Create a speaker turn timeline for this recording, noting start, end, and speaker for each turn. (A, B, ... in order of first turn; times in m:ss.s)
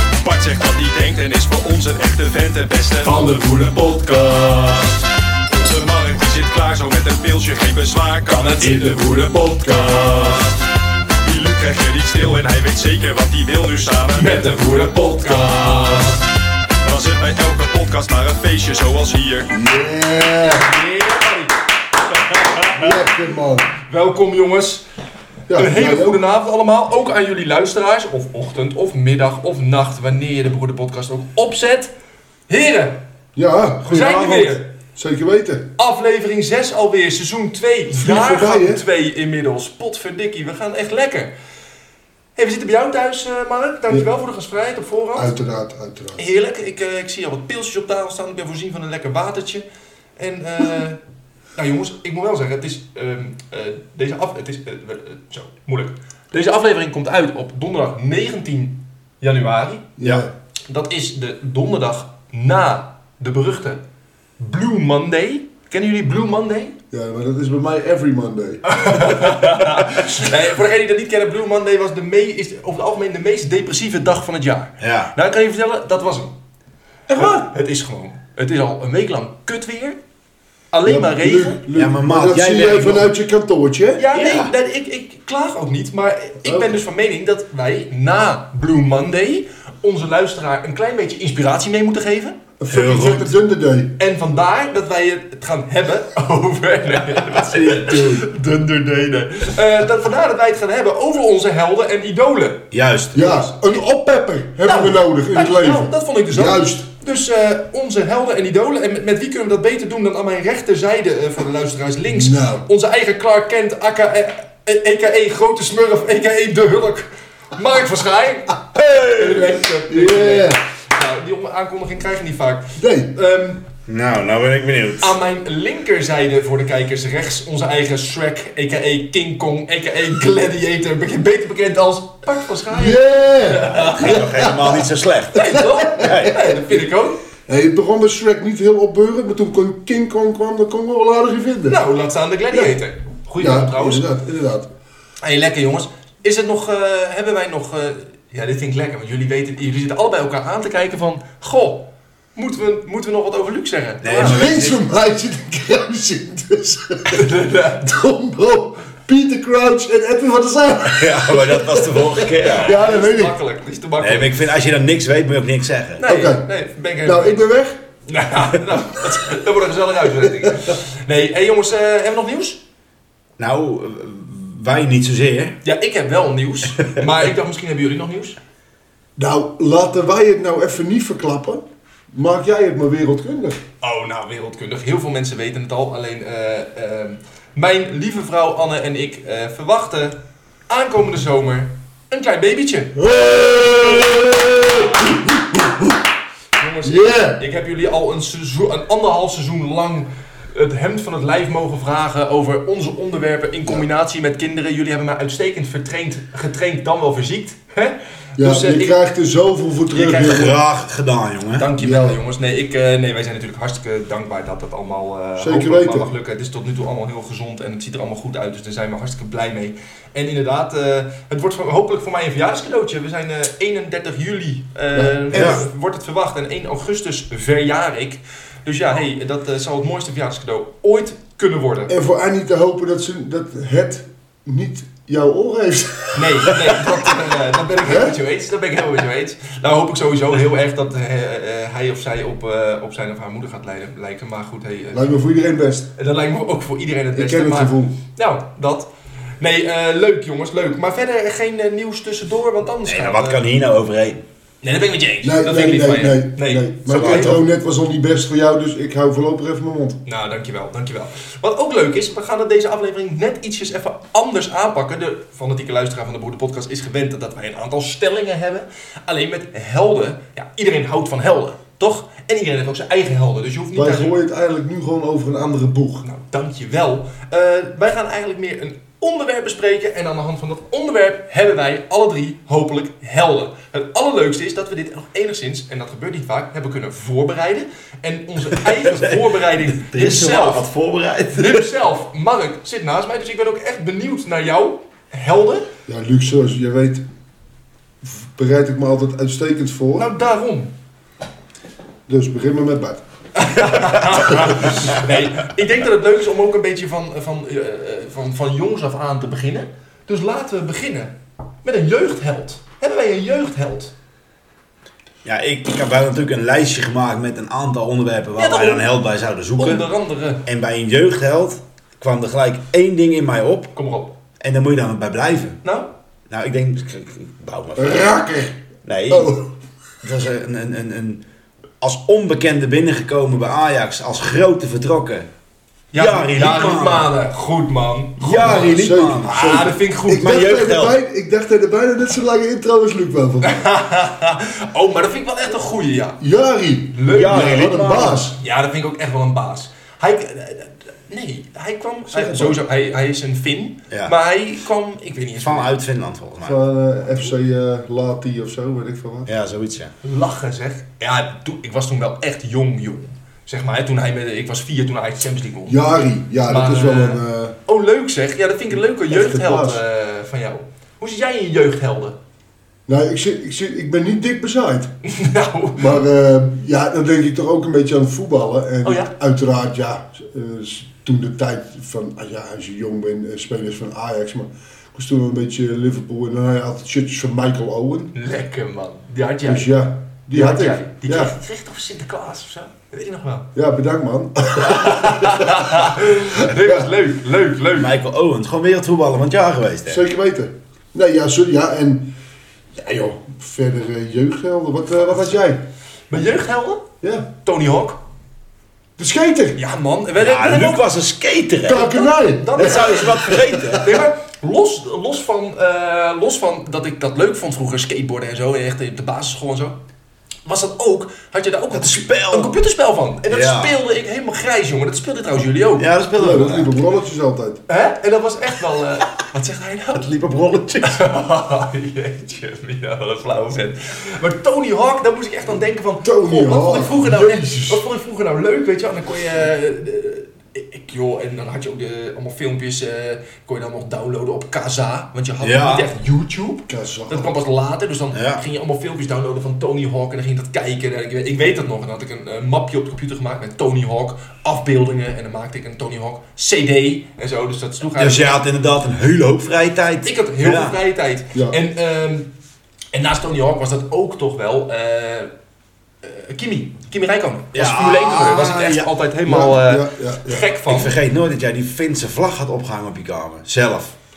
0:00.2-0:04.9 A
0:05.5-0:10.5 A
0:08.3-0:09.1 B
0:11.2-0:16.0 A
0:14.1-0:16.2 B
0:16.8-0:19.5 A
0:19.5-0:20.7 C
0:20.4-0:21.6 B
0:22.3-0:22.9 B
0:22.5-0:23.7 C
0:23.8-0:24.8 B
0:25.5-0:26.2 C
0:25.6-0:31.9 B
0:32.5-0:33.0 B
0:33.4-0:35.7 C
0:33.8-0:34.6 B
0:35.8-0:41.3 B
0:37.9-0:38.8 C
0:42.4-0:45.3 B
0:45.2-0:46.2 C
0:46.2-0:49.6 B
0:50.2-0:51.0 B
0:51.6-0:59.9 B
1:00.0-1:00.3 C
1:00.0-1:00.3 D
1:00.7-1:03.8 B
1:04.4-1:06.8 B
1:06.9-1:08.9 C
1:08.7-1:16.3 B
1:14.8-1:15.1 D
1:17.1-1:17.5 C
1:17.2-1:20.0 B
1:20.7-1:21.6 B
1:20.8-1:24.1 C
1:21.7-1:23.1 D
1:24.0-1:32.4 B
1:24.1-1:24.5 D
1:26.4-1:26.8 C
1:32.6-1:33.9 C
1:32.7-1:33.3 D
1:34.0-1:42.7 B
1:37.2-1:38.3 D
1:42.7-1:43.5 D
1:43.1-1:46.8 C
1:44.6-2:03.6 B
1:52.1-1:52.6 C
1:58.8-1:59.4 D
1:59.9-2:00.6 C
2:02.8-2:03.1 C
2:03.9-2:05.2 D
2:05.0-2:14.5 B
2:12.7-2:14.8 C
2:13.6-2:16.5 D
2:15.3-2:17.2 B
2:15.4-2:16.6 C
2:17.5-2:21.8 C
2:21.7-2:24.1 B
2:23.4-2:24.7 C
2:25.2-2:34.5 B
2:34.0-2:34.8 D
2:34.2-2:43.4 C
2:37.1-2:37.9 B
2:40.9-2:42.8 D
2:42.3-2:44.4 B
2:44.0-2:46.0 D
2:46.0-2:47.4 B
2:46.0-2:46.5 C
2:47.0-2:47.8 C
2:48.1-2:52.6 B
2:53.4-2:55.6 D
2:55.6-2:58.4 B
2:59.2-3:03.6 C
3:03.8-3:13.0 B
3:13.0-3:16.0 C
3:16.6-3:29.0 B
3:16.8-3:17.4 C
3:28.4-3:30.5 C
3:29.9-3:30.5 B
3:30.2-3:31.7 D
3:31.6-3:51.9 B
3:31.8-3:32.2 C
3:35.4-3:36.1 C
3:45.0-3:45.6 C
3:45.3-3:45.6 D
3:51.9-3:56.9 C
3:56.1-4:05.1 B
3:57.8-3:58.2 C
4:04.9-4:05.9 C
4:06.0-4:13.4 B
4:07.1-4:08.0 C
4:12.9-4:14.2 D
4:14.6-4:17.4 B
4:15.2-4:20.0 C
4:16.9-4:17.4 D
4:20.1-4:34.2 B
4:33.7-4:36.0 C
4:36.0-4:50.7 B
4:48.8-4:51.7 D
4:51.4-4:55.7 B
4:55.9-4:57.0 C
4:58.0-5:00.1 C
5:00.0-5:00.7 B
5:02.1-5:03.0 C
5:03.4-5:11.1 B
5:03.6-5:03.9 C
5:11.6-5:13.9 B
5:15.2-5:19.9 D
5:18.4-5:18.9 B
5:19.6-5:20.4 B
5:20.4-5:23.7 D
5:23.7-5:24.1 B
5:24.4-5:25.6 D
5:25.6-5:25.9 B
5:26.3-5:28.0 D
5:27.8-5:28.6 C
5:28.8-5:29.3 D
5:29.1-5:29.5 C
5:30.0-5:31.2 D
5:31.8-5:35.3 D
5:35.9-5:40.4 B
5:35.9-5:37.1 D
5:38.2-5:39.7 D
5:38.3-5:43.7 C
5:40.2-5:41.0 D
5:43.4-5:46.2 B
5:46.2-5:48.4 C
5:46.9-5:47.7 B
5:47.1-5:48.4 D
5:48.4-5:55.7 B
5:52.1-5:52.6 C
5:53.9-5:54.2 D
5:55.4-5:56.6 D
5:56.4-5:59.3 C
5:59.3-5:59.9 D
6:00.0-6:05.8 B
6:05.7-6:07.6 C
6:06.5-6:12.2 B
6:09.1-6:09.8 C
6:12.9-6:14.9 C
6:15.0-6:16.0 B
6:15.8-6:28.1 C
6:18.8-6:19.1 B
6:28.1-6:29.8 B
6:29.4-6:31.3 C
6:30.3-6:33.5 B
6:33.6-6:36.8 C
6:34.6-6:38.0 B
6:37.7-6:40.0 D
6:39.9-6:42.1 C
6:42.8-6:45.6 C
6:46.1-6:46.8 B
6:47.0-6:47.3 C
6:47.4-6:48.0 B
6:49.0-6:49.6 C
6:49.6-6:50.8 B
6:50.2-6:52.0 D
6:51.6-6:53.8 C
6:51.7-6:59.8 B
6:52.6-6:53.9 D
7:00.4-7:05.9 B
7:01.7-7:02.6 D
7:03.3-7:03.8 D
7:05.8-7:06.8 D
7:06.1-7:07.6 C
7:07.7-7:10.1 B
7:10.0-7:11.0 D
7:10.8-7:38.4 B
7:16.0-7:17.8 C
7:25.4-7:25.9 D
7:26.7-7:27.3 C
7:28.1-7:28.4 D
7:38.0-7:40.8 D
7:40.0-7:42.3 B
7:42.9-7:45.3 B
7:46.0-7:51.0 B
7:47.5-7:48.9 D
7:49.3-7:50.4 C
7:50.7-7:54.0 D